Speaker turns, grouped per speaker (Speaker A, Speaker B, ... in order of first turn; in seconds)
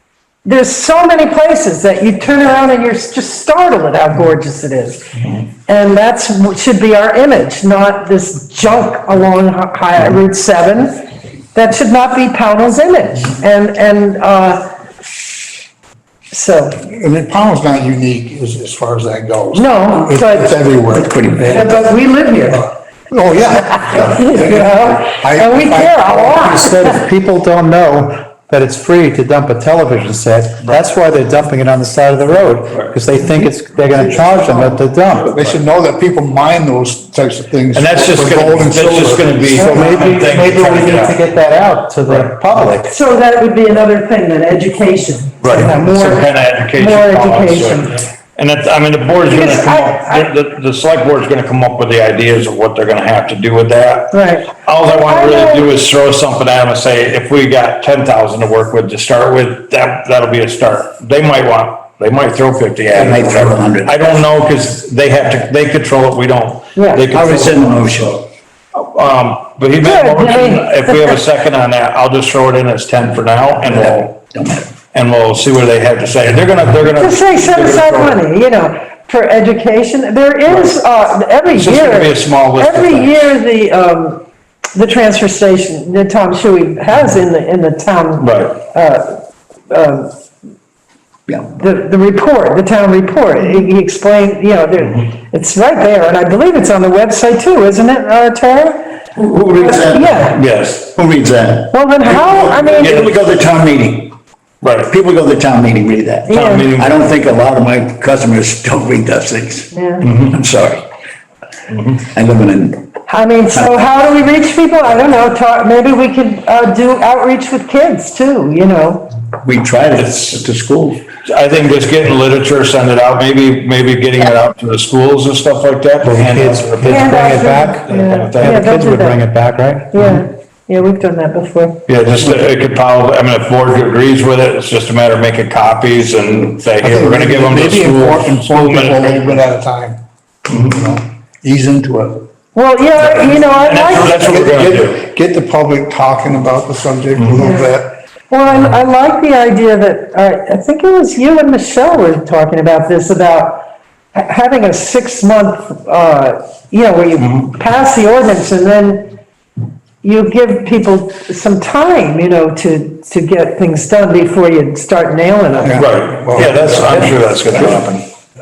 Speaker A: 0.5-5.1, 5.7-14.7, 16.3-16.8, 19.5-22.7, 23.8-27.0, 39.6-40.1, 42.9-48.1, 49.3-50.3, 54.1-55.7, 66.8-67.2, 69.8-71.2, 76.9-84.2, 84.8-90.1, 91.5-99.0, 99.6-100.4, 101.7-103.0, 106.3-106.8, 109.7-110.1, 113.1-119.1, 126.8-129.3, 129.9-131.8, 142.6-144.2, 147.4-147.7, 148.3-159.2, 160.0-165.9
Speaker B: 16.8-21.9, 22.5-26.1, 35.3-39.6, 136.8-140.0, 140.5-142.3, 143.9-148.0, 165.6-167.2
Speaker C: 21.0-21.3, 62.9-63.9, 67.1-68.3, 73.7-74.7, 99.2-104.2, 104.9-110.8, 112.0-112.9, 119.5-121.0
Speaker D: 26.0-35.4, 39.5-42.9, 126.0-129.9
Speaker E: 34.0-35.6, 37.7-41.2, 42.0-42.3, 45.4-67.9, 68.8-74.2, 74.9-78.2, 80.5-80.7, 81.5-83.3, 88.2-88.6, 100.3-100.9, 102.3-103.1, 104.6-104.9, 106.3-107.1, 110.0-110.3, 111.7-112.0, 120.0-120.4, 121.2-128.7, 131.9-139.3, 140.5-140.8, 143.0-145.0, 165.8-168.1